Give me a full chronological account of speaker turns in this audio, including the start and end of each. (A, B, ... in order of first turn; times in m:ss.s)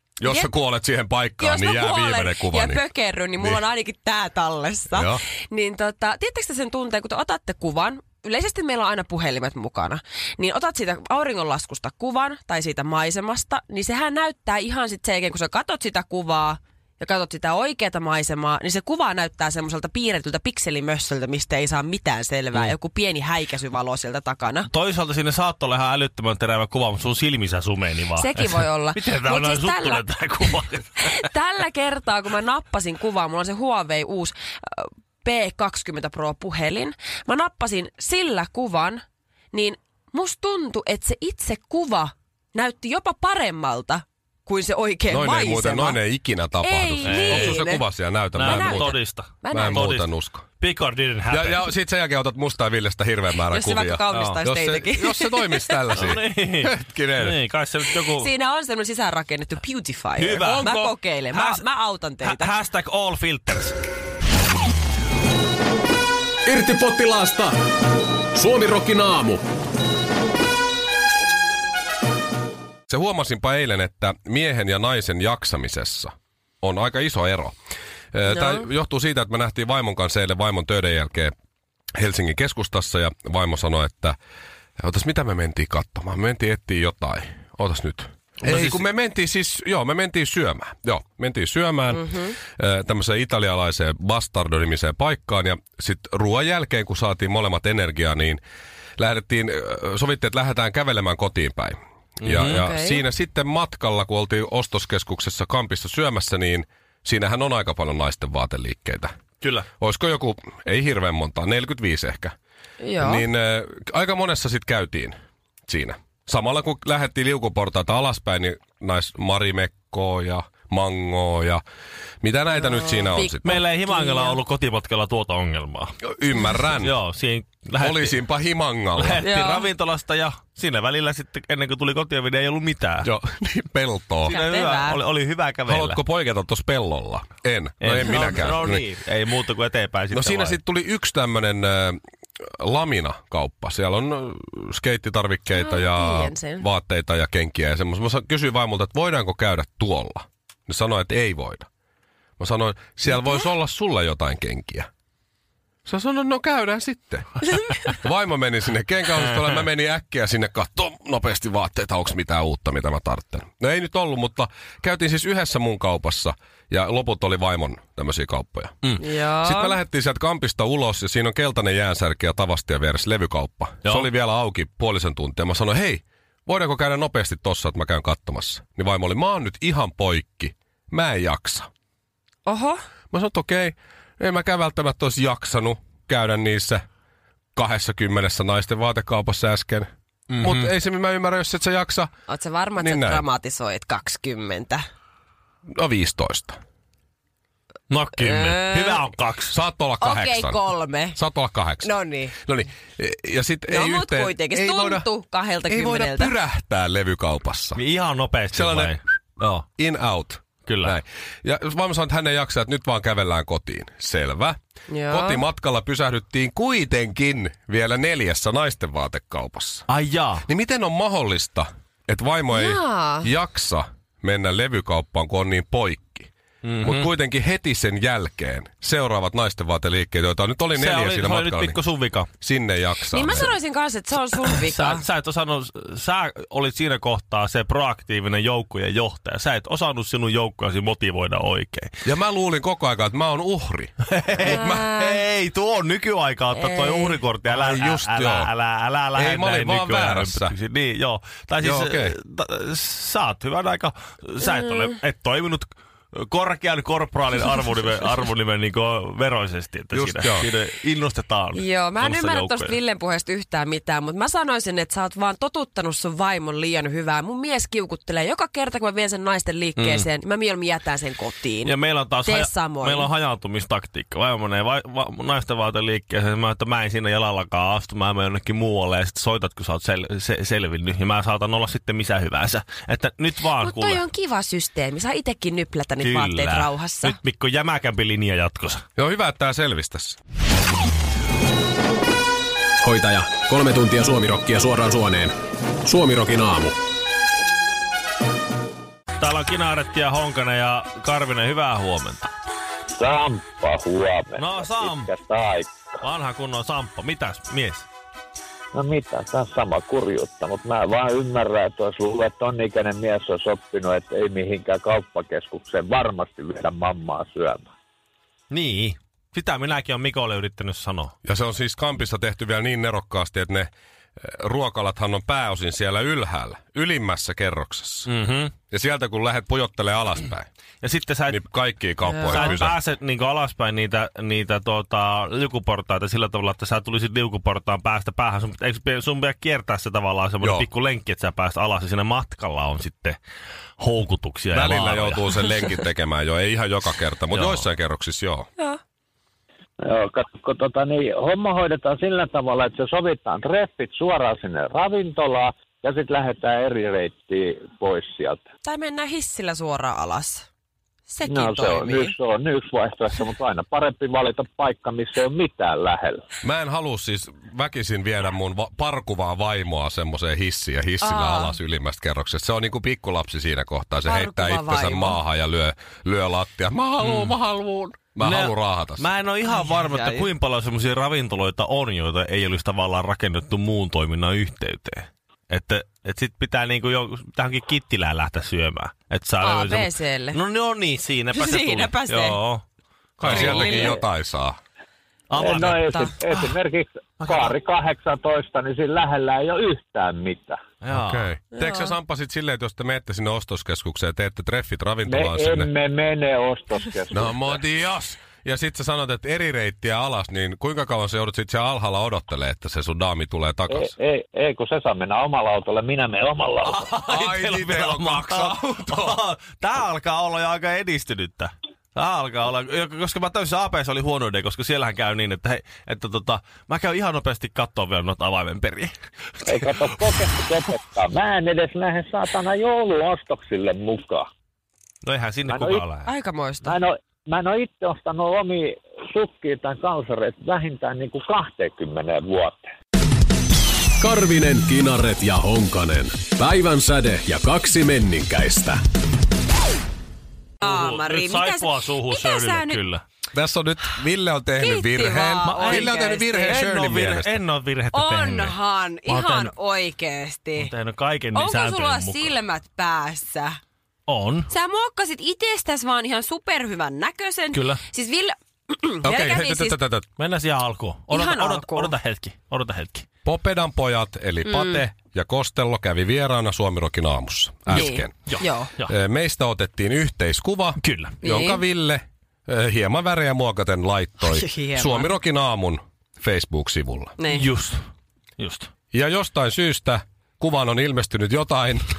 0:00.2-0:02.8 A
0:00.2-0:00.5 B
0:01.4-0:24.7 B
0:04.9-0:05.2 A
0:24.7-0:31.2 C
0:28.2-0:30.1 B
0:31.0-0:46.0 B
0:45.1-0:49.0 A
0:46.6-0:49.9 B
0:47.0-0:47.6 C
0:48.4-0:50.1 C
0:49.5-0:50.5 A
0:50.6-0:51.7 C
0:51.3-0:57.4 A
0:53.5-0:56.1 B
0:56.0-0:58.3 C
0:58.1-1:02.5 B
1:00.2-1:00.8 C
1:00.4-1:00.9 A
1:01.3-1:01.6 C
1:02.2-1:03.8 C
1:06.5-1:07.6 D
1:08.4-1:09.4 D
1:12.9-1:17.5 A
1:18.1-1:21.3 A
1:18.3-1:18.6 B
1:22.0-1:24.2 A
1:24.8-1:38.4 A
1:28.4-1:28.9 C
1:31.9-1:32.4 B
1:39.0-1:49.1 A
1:42.2-1:42.6 C
1:42.5-1:43.0 B
1:49.4-1:49.7 C
1:49.8-1:52.3 A
1:52.8-1:53.3 B
1:53.0-1:55.2 A
1:55.7-2:01.6 A
2:02.2-2:03.6 A
2:02.6-2:04.4 B
2:03.4-2:06.0 C
2:06.0-2:07.0 A
2:06.8-2:08.3 C
2:07.8-2:09.2 A
2:09.0-2:13.1 C
2:09.2-2:09.7 B
2:13.0-2:14.4 A
2:14.3-2:15.0 B
2:14.3-2:16.0 C
2:15.7-2:18.8 A
2:17.8-2:20.6 C
2:20.1-2:22.0 A
2:22.6-2:31.7 A
2:25.6-2:26.6 B
2:32.4-2:34.9 A
2:35.9-3:01.7 A
2:49.0-2:49.8 B
3:02.4-3:02.8 B
3:03.1-3:06.8 A
3:07.6-3:09.9 A
3:10.3-3:10.7 C
3:10.4-3:12.1 A
3:12.3-3:14.8 B
3:12.8-3:13.2 A
3:15.8-3:16.6 A
3:17.9-3:19.6 C
3:18.2-3:19.0 B
3:19.5-3:20.6 A
3:20.0-3:21.2 B
3:21.2-3:21.9 A
3:21.8-3:22.4 B
3:22.4-3:25.1 A
3:23.7-3:26.4 B
3:25.7-3:27.8 A
3:27.8-3:29.6 C
3:28.5-3:29.0 A
3:29.8-3:34.6 A
3:30.7-3:31.0 C
3:34.9-3:35.4 B
3:35.1-3:39.9 A
3:39.9-3:40.4 C
3:40.4-3:46.3 A
3:42.5-3:43.3 B
3:46.6-3:47.1 C
3:46.8-3:51.8 A
3:50.8-3:52.3 C
3:52.4-3:53.5 A
3:53.1-3:55.1 B
3:54.6-4:01.9 C
4:02.0-4:04.9 A
4:04.1-4:22.8 C
4:04.4-4:05.1 B
4:06.6-4:07.2 B
4:07.5-4:08.5 A
4:09.2-4:10.5 A
4:11.6-4:12.1 A
4:14.5-4:14.8 B
4:19.9-4:20.5 A
4:21.5-4:33.1 B
4:29.8-4:30.0 C
4:31.6-4:44.0 C
4:43.6-4:47.2 B
4:46.0-4:48.8 C
4:49.0-4:50.2 A
4:52.8-4:55.4 D
4:55.9-4:56.8 D
4:59.2-5:02.3 C
5:02.9-5:06.0 E
5:04.4-5:05.1 C
5:06.0-5:07.9 C
5:08.7-5:17.7 E
5:18.5-5:21.1 C
5:21.2-5:28.1 A
5:28.1-5:28.5 C
5:28.7-5:30.5 A
5:30.8-5:31.4 C
5:31.3-5:32.8 A
5:32.1-5:32.6 B
5:32.3-5:43.2 C
5:40.4-5:40.7 A
5:43.8-5:45.7 C
5:44.5-5:48.5 A
5:47.3-5:47.7 C
5:49.8-5:58.4 E
5:58.6-6:00.5 B
6:01.1-6:02.2 B
6:01.3-6:06.2 E
6:06.4-6:19.1 A
6:11.0-6:11.6 B
6:14.0-6:15.2 B
6:17.0-6:17.3 C
6:18.2-6:32.6 C
6:19.5-6:20.3 B
6:29.4-6:30.4 B
6:31.3-6:32.4 B
6:33.2-6:34.6 A
6:33.2-6:33.9 C
6:33.3-6:34.0 B
6:35.3-6:36.1 C
6:35.4-6:40.6 E
6:35.9-6:36.4 B
6:37.2-6:37.5 C
6:40.8-6:41.3 C
6:40.9-6:45.7 A
6:41.6-6:41.9 B
6:45.1-6:47.6 E
6:47.1-6:53.9 A
6:53.7-6:56.8 E
6:56.6-7:08.9 C
6:57.1-6:59.2 A
7:09.4-7:14.3 E
7:15.0-7:16.1 C
7:15.5-7:15.8 E
7:16.0-7:16.7 B
7:16.6-7:22.7 E
7:24.0-7:28.8 D
7:30.6-7:32.8 B
7:30.6-7:33.0 C
7:33.3-7:37.4 A
7:34.6-7:36.7 B
7:35.5-7:35.9 C
7:36.4-7:38.6 C
7:37.9-7:40.7 B
7:39.1-7:39.5 C
7:40.6-7:42.3 C
7:41.3-7:43.6 B
7:44.1-7:44.5 C
7:44.5-7:49.8 B
7:47.5-7:47.8 C
7:49.0-7:50.1 A
7:50.2-7:53.1 C
7:51.1-7:52.0 B
7:53.2-8:07.2 A
7:54.5-7:54.9 B
7:57.7-7:58.7 B
7:57.7-7:58.9 C
8:00.8-8:01.2 C
8:01.2-8:01.6 B
8:04.2-8:05.1 B
8:07.2-8:07.4 B
8:07.3-8:07.8 C
8:08.4-8:08.7 C
8:08.9-8:11.9 A